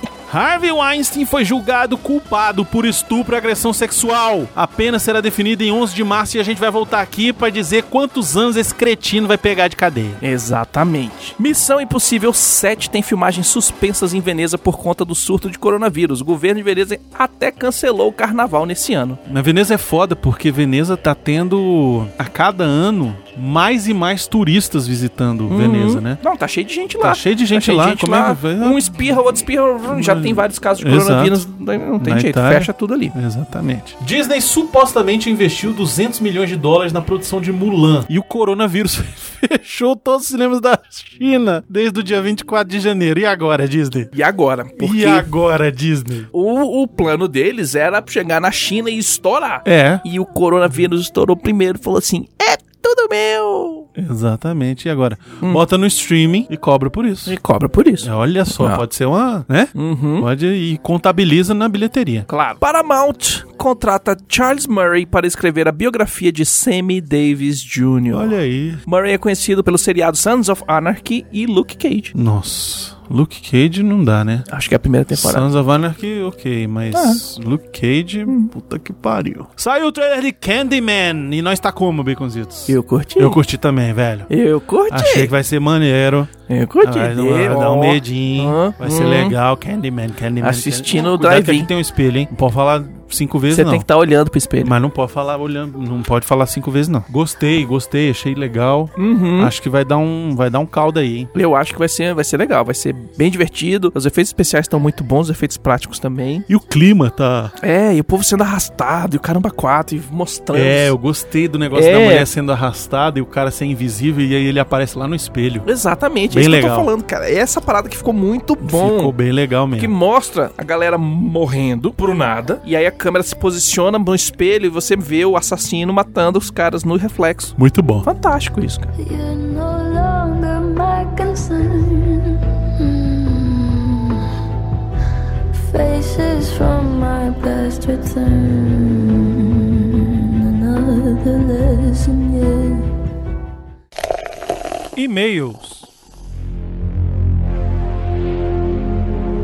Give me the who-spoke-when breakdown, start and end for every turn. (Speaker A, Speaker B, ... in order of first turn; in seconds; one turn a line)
Speaker A: 0.3-10.2
Speaker B: 10.2-19.2
Speaker A: 19.3-26.2
Speaker B: 25.5-33.1
Speaker A: 27.0-28.8
Speaker A: 29.9-31.4
Speaker A: 32.0-44.1
Speaker B: 44.1-45.3
Speaker A: 44.8-46.3
Speaker B: 46.3-53.9
Speaker A: 49.6-50.0
Speaker A: 54.0-57.4
Speaker B: 57.3-58.8
Speaker A: 58.0-62.3
Speaker B: 59.7-60.3
Speaker B: 62.3-72.1
Speaker A: 68.1-68.8
Speaker A: 72.1-74.5
Speaker B: 74.5-75.5
Speaker A: 75.1-84.3
Speaker B: 76.9-77.2
Speaker B: 78.3-78.5
Speaker B: 82.7-83.4
Speaker B: 84.3-85.3
Speaker A: 84.9-93.9
Speaker B: 86.5-89.4
Speaker B: 90.4-91.7
Speaker B: 93.5-94.7
Speaker A: 94.6-101.3
Speaker B: 99.0-99.5
Speaker B: 101.3-106.5
Speaker A: 106.5-107.5
Speaker B: 107.6-111.0
Speaker A: 110.5-115.7
Speaker B: 111.7-112.3
Speaker B: 115.7-119.2
Speaker A: 116.3-116.9
Speaker A: 118.6-119.9
Speaker B: 119.8-128.9
Speaker A: 127.6-128.1
Speaker C: 129.0-134.3
Speaker C: 135.5-142.9
Speaker A: 145.0-145.9